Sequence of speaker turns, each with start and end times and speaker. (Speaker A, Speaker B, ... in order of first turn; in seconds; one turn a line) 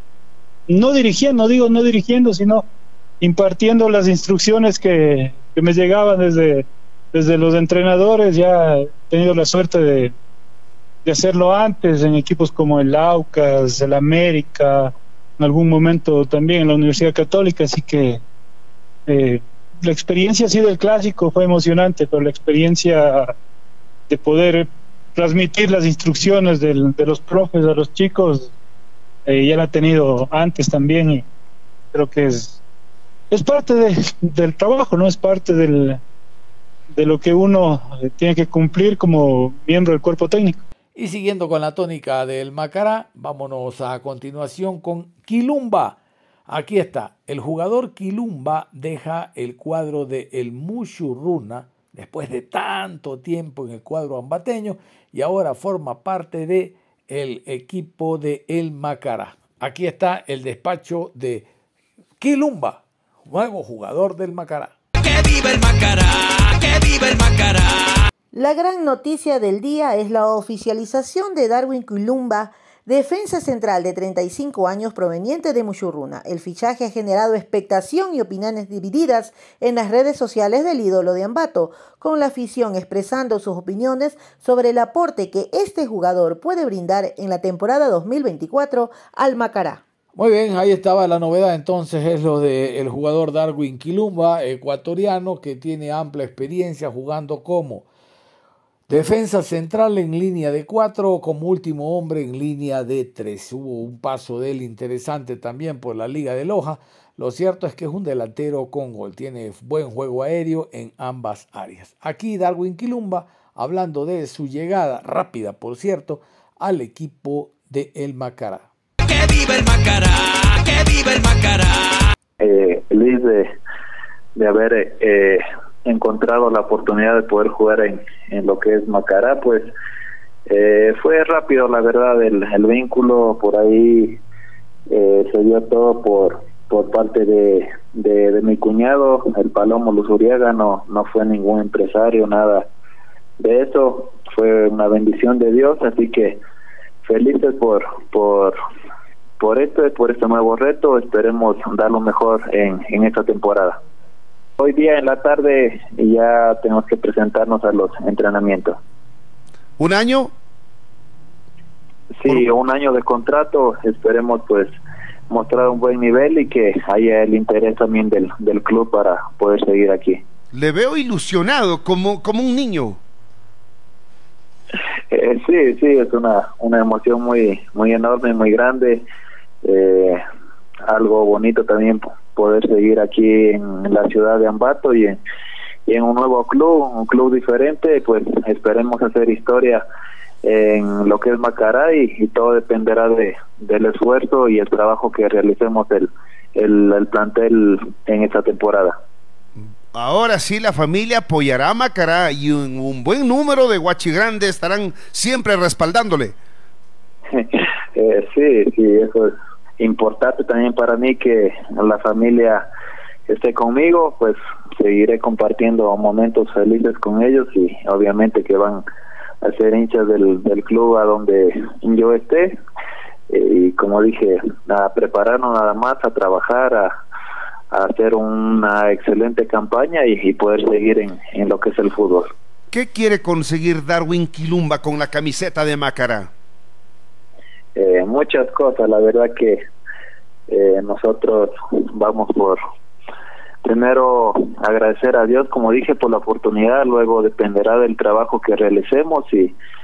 Speaker A: 0.7-2.6
Speaker A: 3.2-10.1
Speaker A: 11.0-18.2
Speaker A: 19.1-23.3
Speaker A: 24.1-28.5
Speaker A: 29.2-31.2
Speaker A: 31.9-32.6
Speaker A: 33.3-36.0
Speaker A: 36.9-40.6
Speaker B: 41.0-61.5
Speaker B: 62.2-64.7
Speaker C: 65.0-68.0
Speaker D: 68.3-89.8
Speaker B: 90.1-97.8
Speaker B: 98.9-118.7
Speaker C: 119.0-122.1
Speaker E: 122.4-123.5
Speaker E: 124.3-129.7
Speaker E: 130.5-134.2
Speaker E: 134.9-142.6
Speaker E: 143.4-146.4
Speaker E: 147.0-148.5
Speaker E: 149.4-153.8
Speaker E: 154.6-158.8
Speaker F: 159.8-160.3
Speaker E: 162.2-164.7
Speaker E: 165.3-170.2
Speaker F: 170.5-173.0
Speaker E: 175.1-179.0
Speaker E: 179.6-180.2
Speaker E: 180.9-185.2
Speaker E: 185.9-189.8
Speaker E: 190.4-198.9
Speaker F: 199.6-206.3
Speaker E: 207.3-212.6
Speaker E: 213.3-218.8
Speaker E: 219.4-222.6
Speaker E: 223.3-226.9
Speaker E: 227.7-232.3
Speaker F: 232.7-236.3
Speaker E: 237.8-239.6
Speaker E: 240.5-242.6
Speaker E: 243.6-249.5